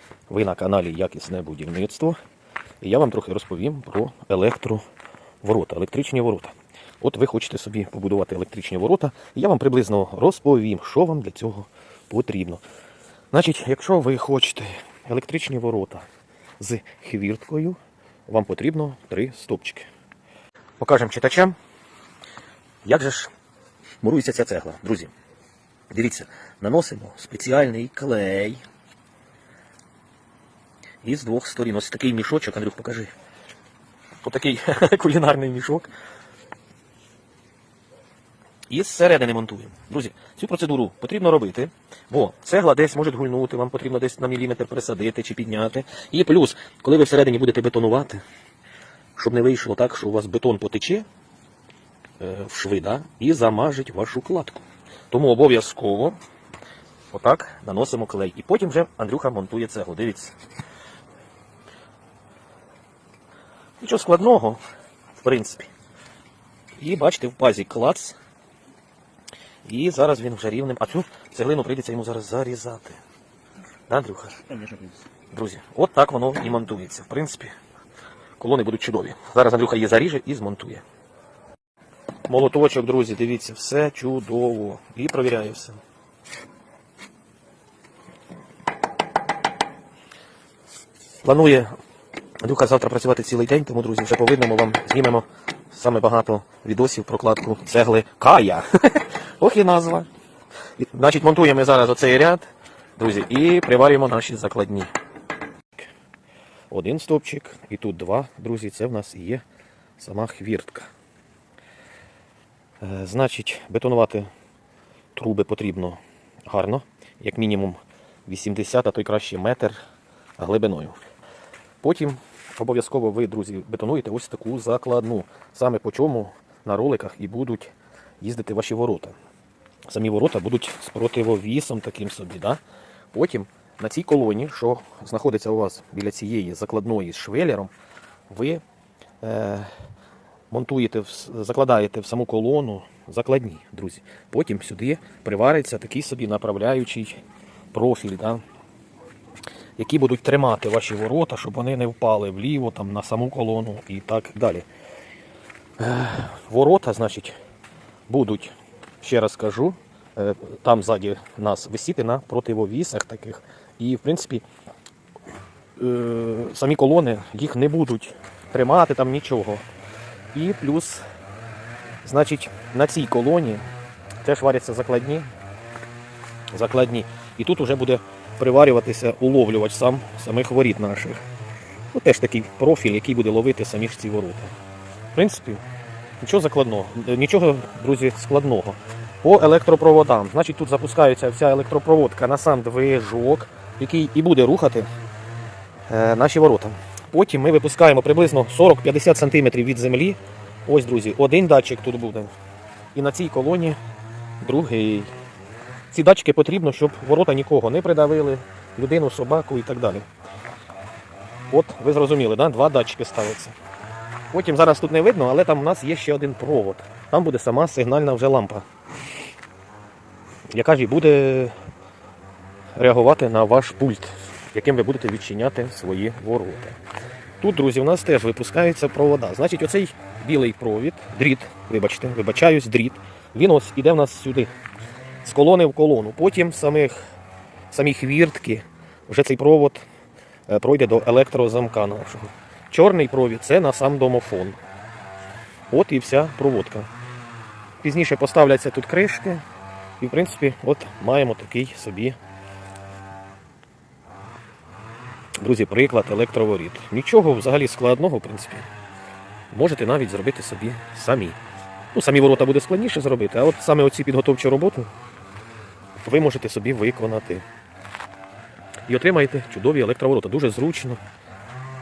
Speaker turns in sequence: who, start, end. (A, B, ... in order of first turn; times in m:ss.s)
0:00.3-0:02.2 A
0:02.8-0:04.8 A
0:05.4-0:12.6 A
0:13.3-0:16.1 A
0:16.6-0:19.9 A
0:20.8-0:21.5 A
0:22.8-0:23.3 A
0:24.0-0:25.1 A
0:25.9-0:28.6 A
0:31.0-0:33.1 A
0:34.2-0:35.9 A
0:38.7-0:48.2 A
0:49.2-0:51.0 A
0:52.2-0:56.2 A
0:57.1-1:00.3 A
1:03.8-1:04.6 A
1:05.2-1:05.7 A
1:06.8-1:08.2 A
1:09.6-1:13.0 A
1:13.9-1:14.7 A
1:15.3-1:17.5 A
1:18.4-1:20.8 A
1:22.2-1:25.8 A
1:31.2-1:31.7 A
1:32.4-1:40.1 A
1:40.8-1:42.5 A
1:43.0-1:44.9 A
1:46.7-1:49.4 A
1:50.0-1:50.9 A
1:52.8-1:54.3 A
1:55.1-1:59.8 A
2:00.4-2:01.0 A
2:01.8-2:09.1 A
2:09.9-2:12.6 A
2:13.1-2:17.7 A
2:18.3-2:18.6 A
2:19.2-2:19.7 A
2:20.5-2:27.2 A
2:27.7-2:28.4 A
2:29.8-2:34.6 A
2:35.8-2:37.4 A
2:38.1-2:44.4 A
2:45.8-2:49.6 A
2:50.3-2:51.0 A
2:52.0-2:53.6 A
2:54.2-2:55.3 A
2:56.5-3:01.2 A
3:01.9-3:04.5 A
3:05.1-3:05.6 A
3:06.2-3:14.9 A
3:15.9-3:22.3 A
3:22.9-3:23.8 A
3:24.4-3:25.1 A
3:25.9-3:30.0 A
3:31.5-3:33.5 A
3:34.3-3:38.6 A
3:40.5-3:41.5 A
3:42.8-3:46.8 A
3:47.4-3:54.5 A
3:55.2-3:57.0 A
3:57.7-3:59.8 A
4:00.5-4:04.6 A
4:05.7-4:06.9 A
4:07.8-4:09.4 A
4:10.0-4:12.2 A
4:15.4-4:18.7 A
4:19.5-4:21.4 A
4:21.9-4:24.9 A
4:26.0-4:27.4 A
4:28.9-4:31.0 A